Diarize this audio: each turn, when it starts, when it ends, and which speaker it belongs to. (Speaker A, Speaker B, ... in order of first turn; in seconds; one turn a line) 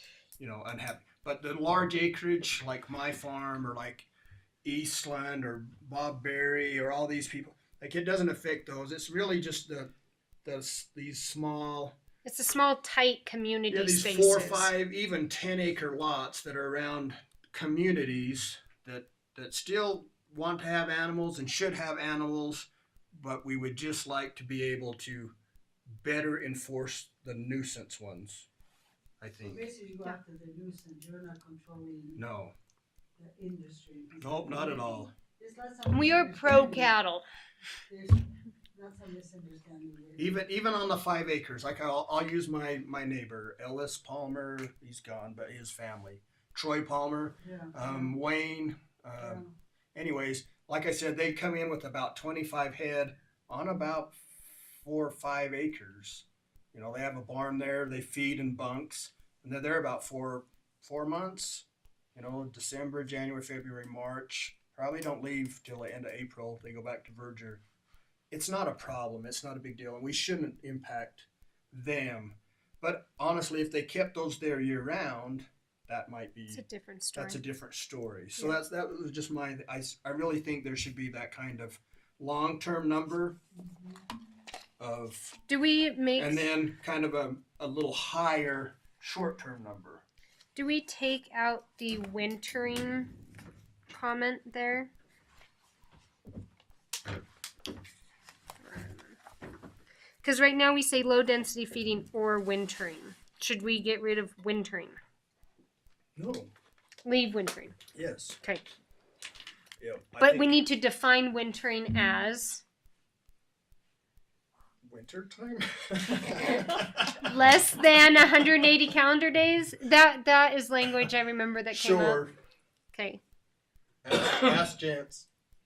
Speaker A: 0.4-4.1
Speaker A: 4.6-9.9
Speaker A: 10.4-12.0
Speaker B: 12.2-14.7
Speaker A: 13.7-25.3
Speaker A: 26.0-28.5
Speaker A: 29.2-29.7
Speaker C: 29.5-32.2
Speaker A: 32.2-32.5
Speaker C: 33.2-36.9
Speaker A: 34.2-35.1
Speaker B: 35.9-37.2
Speaker C: 37.9-40.3
Speaker A: 40.2-49.4
Speaker C: 47.4-48.1
Speaker C: 49.2-49.5
Speaker A: 50.0-54.2
Speaker A: 54.7-67.6
Speaker A: 68.3-76.6
Speaker B: 76.5-77.4
Speaker A: 77.1-83.4
Speaker A: 84.8-85.4
Speaker B: 85.5-86.5
Speaker A: 86.2-90.0
Speaker B: 90.6-93.2
Speaker B: 93.9-94.9
Speaker B: 98.6-99.2
Speaker B: 100.2-105.0
Speaker A: 106.2-106.5
Speaker B: 107.0-107.8
Speaker A: 108.0-108.4
Speaker B: 108.4-108.7
Speaker A: 109.8-110.6
Speaker B: 110.2-112.6
Speaker A: 114.8-117.2
Speaker B: 117.2-122.3
Speaker A: 121.7-122.3
Speaker B: 122.9-123.2
Speaker A: 124.0-125.3